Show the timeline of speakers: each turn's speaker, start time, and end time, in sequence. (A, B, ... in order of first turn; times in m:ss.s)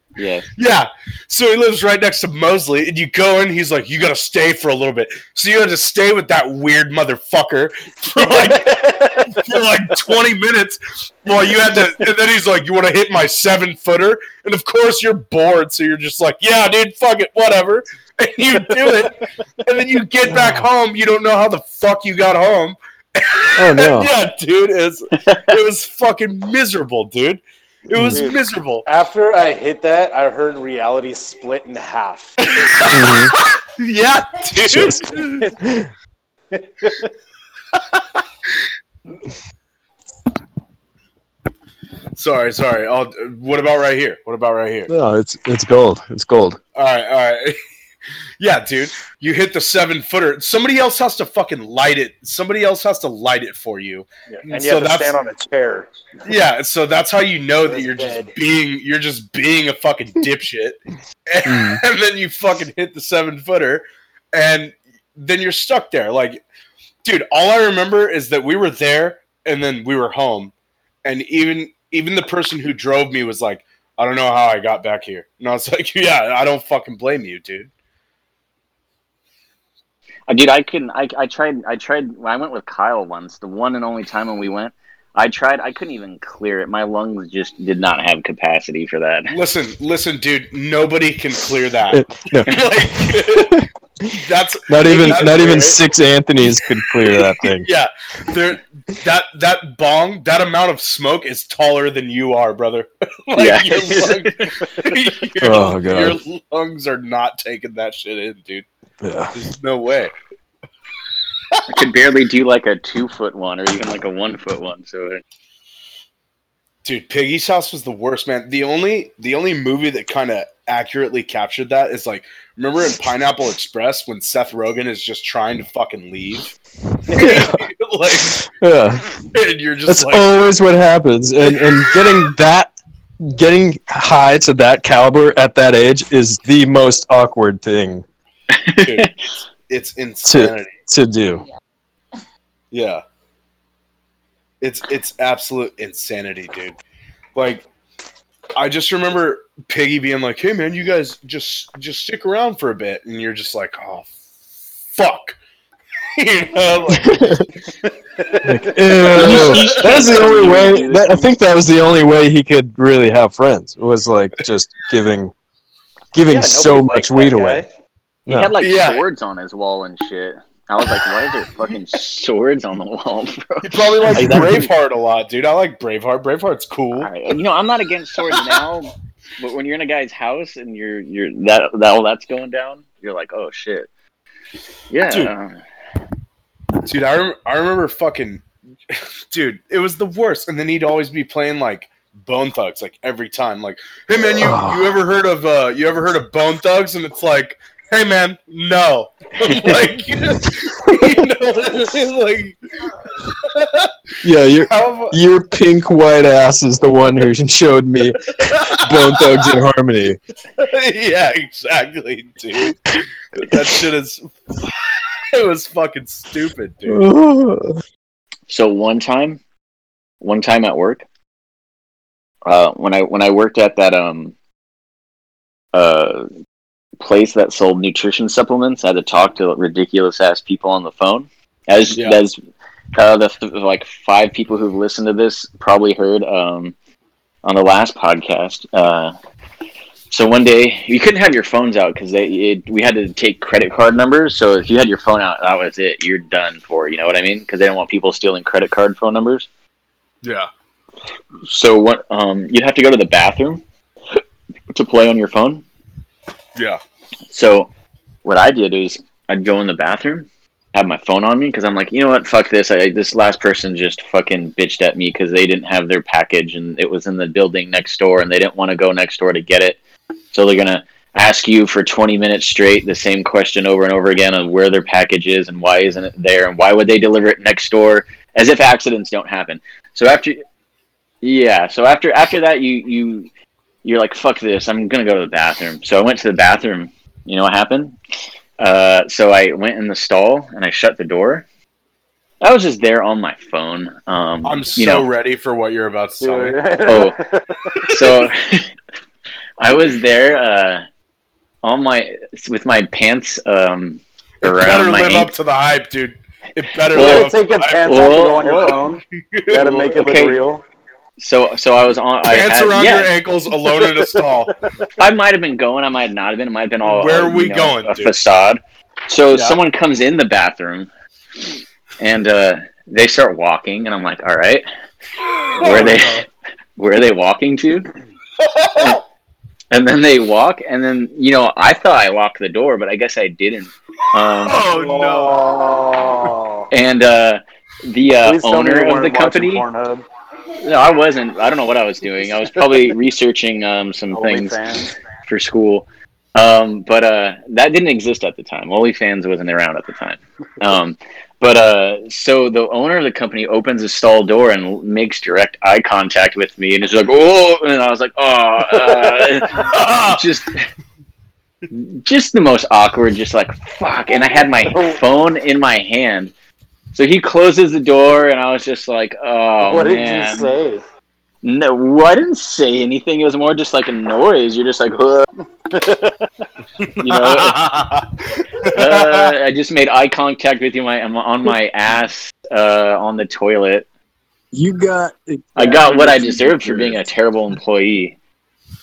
0:00.2-0:00.5 A
0:00.6-0:28.8 B
0:08.2-0:09.4 C
0:18.8-0:19.1 C
0:20.2-0:20.7 D
0:23.6-0:24.1 D
0:27.9-0:28.2 D
0:28.1-0:32.5 C
0:32.5-0:35.5 B
0:32.9-0:33.3 D
0:34.6-0:35.9 D
0:36.5-0:37.1 C
0:42.1-0:44.9 B
0:44.9-0:46.6 D
0:46.8-0:47.6 B
0:48.4-0:55.1 B
0:54.3-0:55.9 C
0:56.2-1:06.4 B
0:57.6-0:58.3 C
1:01.4-1:01.8 D
1:07.0-1:10.5 B
1:11.0-1:17.7 B
1:20.3-1:29.3 A
1:29.3-1:35.8 B
1:31.9-1:37.7 D
1:35.2-1:35.6 C
1:37.6-1:48.6 B
1:43.3-1:44.5 A
1:45.4-1:46.2 D
1:49.0-1:49.3 D
1:49.3-1:50.1 B
1:51.7-1:55.2 A
1:56.8-2:06.5 B
2:07.1-2:08.4 B
2:07.1-2:07.6 D
2:08.3-2:09.1 D
2:09.2-2:10.3 B
2:09.9-2:18.0 D
2:18.5-2:19.1 A
2:18.8-2:19.1 B
2:19.7-2:20.7 B
2:20.2-2:21.4 D
2:22.7-2:23.0 B
2:24.6-2:26.8 B
2:27.3-2:27.6 B
2:28.6-2:34.1 B
2:34.9-2:35.4 B
2:36.2-2:37.4 B
2:36.9-2:37.5 D
2:38.3-2:38.7 C
2:38.4-2:45.3 D
2:39.1-2:41.3 A
2:39.2-2:39.6 B
2:46.1-2:47.6 D
2:46.2-2:47.7 C
2:48.3-2:48.5 D
2:48.3-2:54.7 A
2:48.6-2:49.0 B
2:53.6-2:57.1 B
2:54.1-2:54.6 D
2:57.0-3:03.9 A
3:04.9-3:05.6 A
3:05.1-3:05.3 B
3:06.8-3:22.6 B
3:14.2-3:15.0 D
3:23.2-3:23.9 B
3:24.2-3:30.2 D
3:24.7-3:25.2 B
3:28.4-3:29.5 B
3:30.6-3:37.0 B
3:36.8-3:37.8 D
3:38.5-3:39.4 A
3:40.2-3:41.0 A
3:42.4-3:44.3 A
3:45.7-3:46.3 A
3:47.0-3:52.4 A
3:52.9-3:56.7 A
3:57.4-3:59.1 A
4:00.1-4:09.5 A
4:10.2-4:10.5 B
4:11.4-4:13.6 A
4:14.1-4:15.6 A
4:17.3-4:17.7 A
4:18.2-4:29.8 A
4:30.3-4:40.4 A
4:41.2-4:43.3 A
4:43.8-4:48.0 A
4:48.6-4:51.4 A
4:52.4-4:55.0 A
4:54.4-4:56.8 B
4:56.2-4:57.8 C
4:56.8-4:57.2 A
4:57.9-4:58.7 A
4:59.6-5:00.8 A
5:01.6-5:05.3 A
5:04.4-5:10.1 B
5:06.9-5:07.3 A
5:06.9-5:10.6 C
5:07.8-5:08.6 A
5:09.9-5:10.4 A
5:11.2-5:13.1 A
5:12.3-5:14.6 B
5:13.6-5:14.0 C
5:15.0-5:20.9 A
5:16.8-5:18.1 B
5:22.0-5:24.6 A
5:25.4-5:26.2 B
5:25.6-5:26.2 A
5:26.8-5:27.9 A
5:28.4-5:29.0 B
5:28.8-5:29.0 A
5:29.7-5:34.6 A
5:34.4-5:35.4 B
5:34.6-5:36.7 C
5:36.7-5:39.6 A
5:38.2-5:40.0 C
5:40.6-6:00.6 A
5:44.1-5:44.9 C
5:58.8-5:59.5 C
5:59.7-6:00.2 B
6:01.7-6:06.3 A
6:04.7-6:05.0 C
6:06.9-6:10.5 A
6:09.6-6:10.8 C
6:11.4-6:15.2 A
6:15.7-6:16.3 C
6:16.8-6:19.3 B
6:17.0-6:17.6 A
6:18.7-6:23.8 A
6:24.5-6:27.0 D
6:25.6-6:28.2 A